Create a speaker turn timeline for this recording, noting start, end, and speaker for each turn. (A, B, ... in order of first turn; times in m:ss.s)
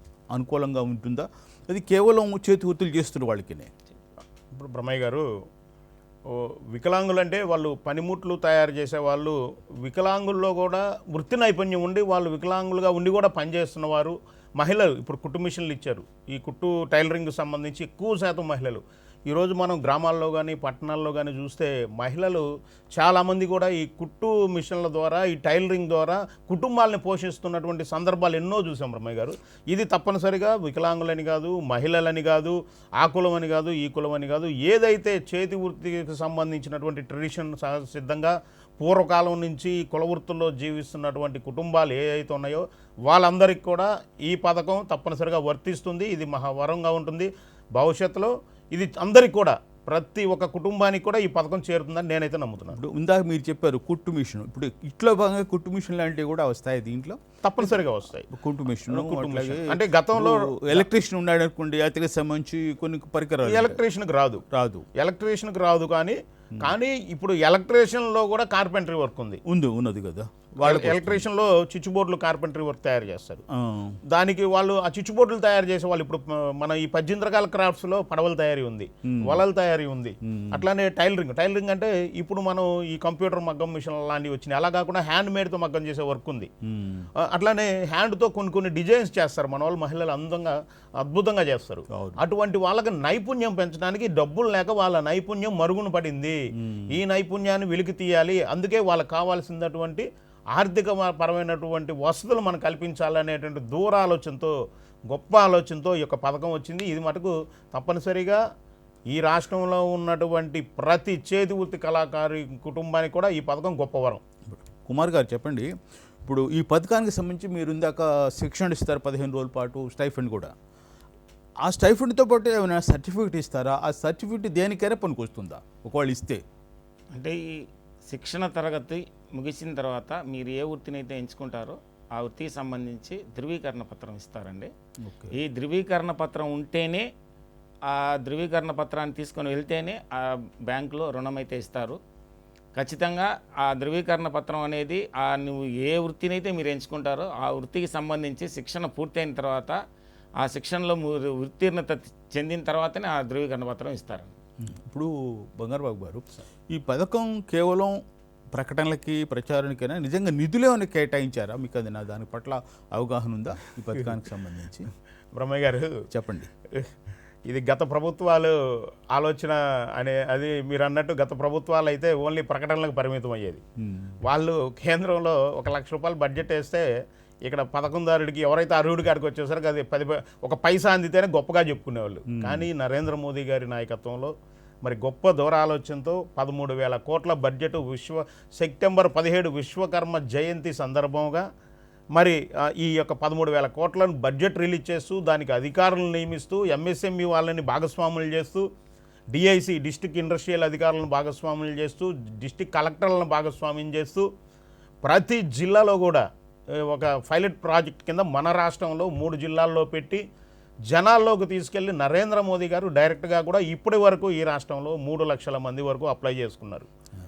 0:00.3-0:03.7 A
0:04.5-0:05.3 B
0:06.3-0:52.8 B
0:52.7-0:57.8 A
0:57.4-0:58.3 B
0:58.3-1:03.8 A
0:58.9-1:00.9 B
1:03.4-1:04.4 B
1:04.5-1:04.9 A
1:05.0-1:09.4 B
1:09.5-1:11.2 A
1:10.6-1:13.4 B
1:13.5-1:14.0 A
1:14.1-1:26.5 B
1:19.0-1:19.4 A
1:20.2-1:20.7 A
1:26.6-1:27.1 A
1:27.2-1:36.4 B
1:31.9-1:32.2 A
1:36.6-1:37.0 A
1:36.9-1:44.5 B
1:45.1-1:48.4 B
1:49.1-1:54.2 B
1:54.5-1:55.7 A
1:56.2-2:00.5 A
2:01.6-2:06.4 A
2:07.1-2:14.7 C
2:15.0-2:15.3 A
2:15.3-2:17.1 C
2:17.9-2:22.0 C
2:22.8-2:29.8 C
2:30.4-2:34.3 C
2:34.6-2:38.0 A
2:38.5-2:44.9 A
2:45.3-2:46.0 B
2:46.1-2:46.5 A
2:47.5-2:48.6 B
2:49.1-2:53.6 B
2:53.8-2:54.2 A
2:54.3-2:56.9 B
2:57.5-3:04.3 B
3:02.3-3:02.7 A
3:04.8-3:11.4 B
3:12.1-3:18.7 B
3:19.3-3:24.3 B
3:25.0-3:26.2 B
3:26.8-3:30.2 B
3:30.9-3:36.9 B